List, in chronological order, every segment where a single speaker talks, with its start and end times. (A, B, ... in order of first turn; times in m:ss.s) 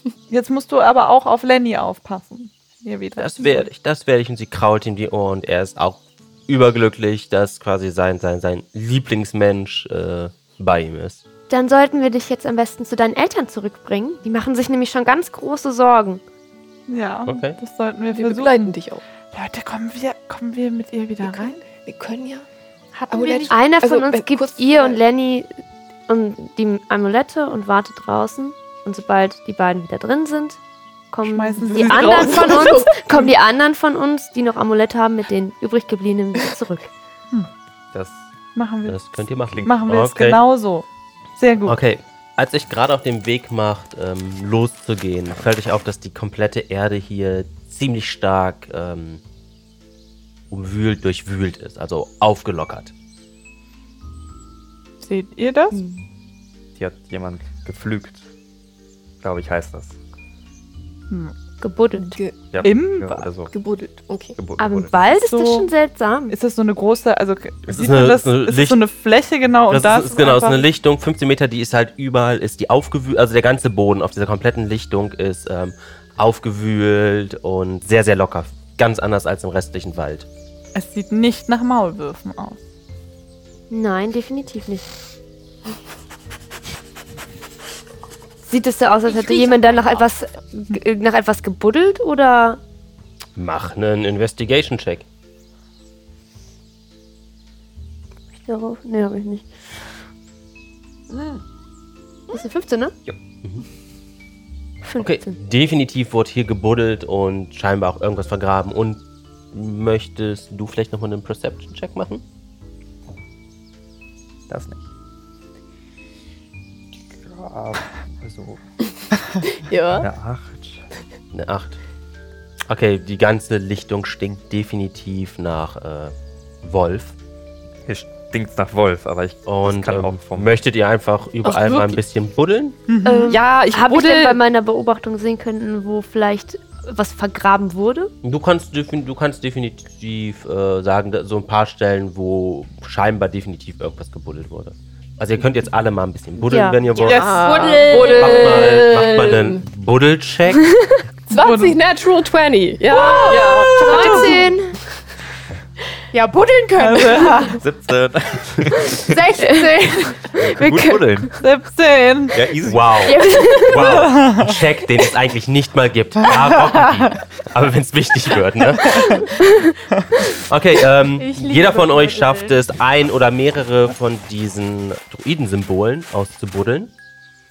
0:00.3-0:03.7 A
0:03.2-0:11.2 B
0:11.5-0:16.2 C
0:16.9-0:18.7 A
0:17.2-0:17.6 B
0:18.1-0:19.0 D
0:19.3-0:21.6 A
0:21.2-0:22.4 D
0:22.9-0:23.7 E
0:23.1-0:25.0 D
0:23.5-0:25.5 C
0:26.1-0:30.6 C
0:31.1-0:36.9 C
0:31.2-0:33.3 A
0:31.8-0:33.2 D
0:37.9-0:38.3 F
0:38.5-0:39.0 A
0:38.9-0:40.4 B
0:39.6-0:41.8 A
0:41.6-0:49.2 B
0:50.5-0:52.9 B
0:55.0-0:55.8 A
0:55.7-0:56.0 C
0:56.8-0:58.3 F
0:59.2-1:00.0 F
1:01.6-1:02.2 C
1:02.0-1:04.4 D
1:02.5-1:03.5 F
1:02.6-1:03.2 A
1:04.4-1:05.0 F
1:04.6-1:06.3 C
1:05.1-1:05.7 A
1:06.3-1:10.6 A
1:07.7-1:08.8 B
1:09.7-1:20.3 B
1:20.7-1:22.6 A
1:23.7-1:24.9 C
1:28.4-1:32.6 C
1:29.1-1:30.1 E
1:33.4-1:35.0 B
1:38.4-1:39.7 C
1:42.3-1:42.9 C
1:44.8-1:45.4 C
1:45.0-1:52.2 B
1:54.5-1:54.9 F
1:57.1-1:58.6 F
1:59.5-2:00.1 D
2:00.0-2:00.8 F
2:01.3-2:01.8 B
2:02.7-2:07.2 B
2:07.9-2:10.5 F
2:09.4-2:12.8 B
2:11.4-2:12.0 D
2:12.9-2:13.4 A
2:13.0-2:18.1 C
2:13.3-2:14.4 D
2:18.2-2:30.7 B
2:26.5-2:28.7 C
2:27.0-2:27.6 A
2:27.0-2:29.6 D
2:31.3-2:34.4 D
2:31.3-2:31.8 A
2:32.9-2:34.8 C
2:33.1-2:34.5 E
2:33.9-2:34.2 A
2:36.1-2:37.6 E
2:36.8-2:37.6 A
2:37.6-2:39.2 F
2:38.9-2:40.4 E
2:39.4-2:41.4 C
2:40.4-2:41.3 F
2:41.4-2:42.4 A
2:42.3-2:44.0 F
2:42.6-2:49.2 B
2:43.0-2:44.0 C
2:43.7-2:44.6 A
2:49.4-2:50.3 C
2:50.5-2:56.9 B
2:51.2-2:52.5 E
2:51.4-2:52.0 C